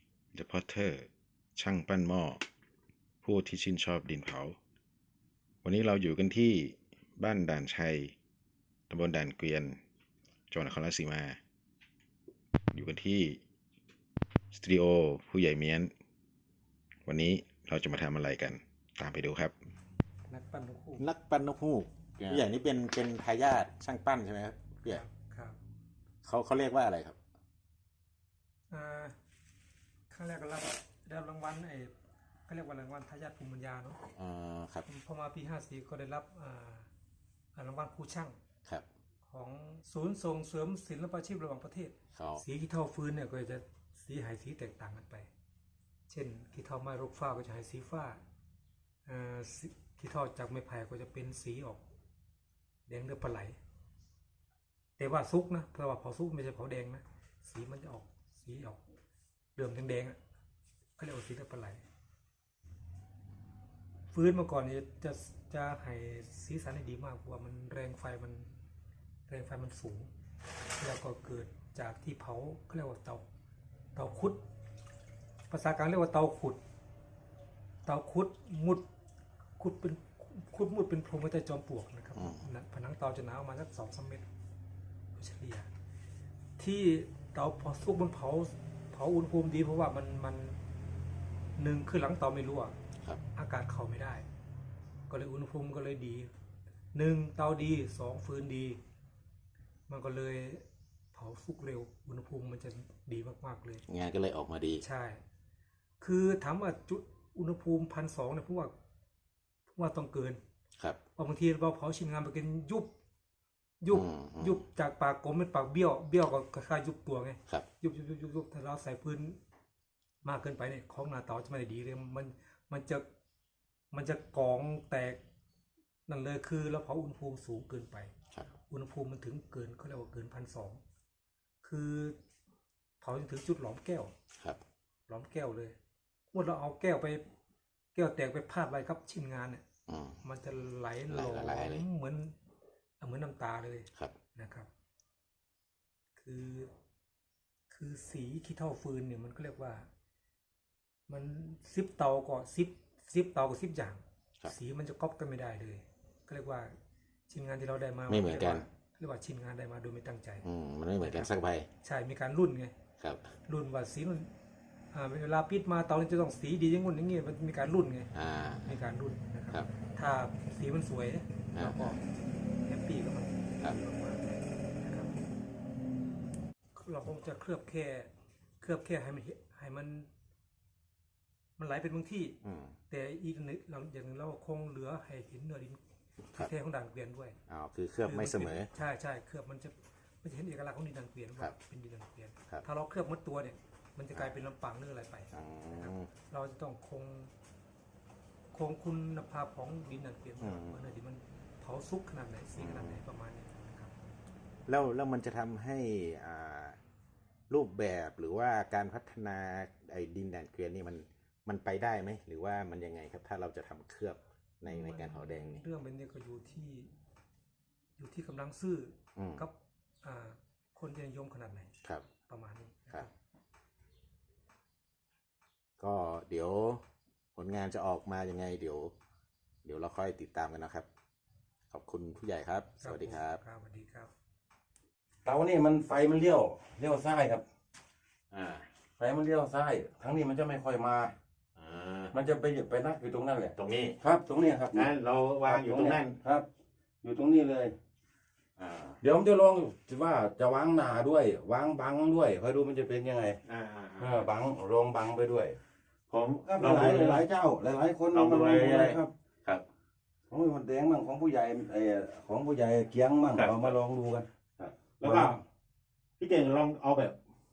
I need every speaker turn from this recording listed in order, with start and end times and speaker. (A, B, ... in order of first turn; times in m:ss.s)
0:00.3-0:02.4 A
0:03.2-0:04.6 A
0:05.6-0:08.2 A
0:08.9-0:09.8 A
0:10.5-0:11.4 A
0:12.7-0:13.4 A
0:14.5-0:15.9 A
0:17.1-0:19.6 A
0:20.3-0:21.1 B
0:21.0-0:25.0 A
0:24.9-0:25.6 B
0:26.2-0:27.2 A
0:28.7-0:29.2 B
0:30.1-0:31.9 B
0:32.5-0:34.0 B
0:34.1-0:34.9 A
0:34.9-0:36.9 B
0:37.5-0:38.4 B
0:39.2-0:45.3 B
0:42.1-0:42.4 A
0:46.1-0:48.2 B
0:49.1-0:51.8 B
0:52.9-0:53.6 B
0:55.0-0:58.8 B
0:59.6-1:00.2 B
1:01.0-1:01.8 B
1:04.1-1:08.5 B
1:09.3-1:10.1 B
1:10.8-1:13.2 B
1:14.0-1:14.4 B
1:15.5-1:16.6 B
1:17.8-1:18.8 B
1:19.6-1:24.3 B
1:22.2-1:22.4 A
1:25.2-1:25.7 B
1:26.6-1:30.6 B
1:31.6-1:32.8 B
1:33.4-1:34.3 B
1:35.1-1:36.3 B
1:36.9-1:38.8 B
1:39.9-1:43.8 B
1:43.9-1:44.8 A
1:44.8-1:45.2 B
1:46.0-1:48.7 B
1:49.7-1:50.4 B
1:51.2-1:52.9 B
1:53.8-1:59.4 B
1:53.9-1:54.6 A
2:00.2-2:03.0 B
2:03.9-2:05.2 B
2:06.1-2:08.1 B
2:08.7-2:10.8 B
2:11.6-2:12.2 B
2:13.0-2:14.1 B
2:15.1-2:15.8 B
2:16.3-2:17.2 B
2:17.9-2:19.6 B
2:19.9-2:20.2 A
2:20.2-2:22.3 B
2:21.1-2:21.8 A
2:23.0-2:24.7 B
2:26.2-2:26.7 B
2:27.7-2:29.9 B
2:31.1-2:36.8 B
2:37.3-2:40.4 B
2:38.1-2:38.7 A
2:40.4-2:41.7 A
2:41.0-2:41.3 B
2:41.8-2:42.8 B
2:43.0-2:43.2 A
2:43.4-2:44.3 B
2:44.9-2:48.1 B
2:48.1-2:48.8 A
2:48.6-2:55.2 B
2:51.5-2:52.0 A
2:56.8-3:00.1 B
3:01.6-3:02.4 B
3:02.4-3:02.8 A
3:02.9-3:05.8 B
3:06.3-3:07.4 B
3:07.5-3:08.7 A
3:08.0-3:17.3 B
3:15.3-3:16.1 A
3:18.5-3:23.9 B
3:20.4-3:20.8 A
3:22.6-3:23.0 A
3:24.7-3:26.8 A
3:27.5-3:35.6 A
3:34.7-3:36.9 B
3:38.0-3:41.7 B
3:39.2-3:39.4 A
3:42.2-3:43.1 B
3:45.8-3:46.8 A
3:47.4-3:48.9 A
3:49.6-3:50.9 A
3:51.7-3:53.4 A
3:52.8-3:54.1 B
3:55.2-3:57.4 C
3:58.3-3:58.7 A
3:59.0-4:01.2 C
4:01.6-4:02.2 A
4:02.1-4:06.5 C
4:03.5-4:04.0 A
4:04.7-4:06.2 A
4:07.0-4:07.8 C
4:08.6-4:09.0 A
4:09.0-4:13.4 C
4:13.4-4:14.3 A
4:14.0-4:15.6 C
4:16.1-4:17.2 A
4:16.4-4:19.1 C
4:18.1-4:19.6 A
4:20.3-4:24.3 C
4:23.3-4:23.8 A
4:24.6-4:25.4 A
4:25.0-4:25.4 C
4:26.2-4:27.2 A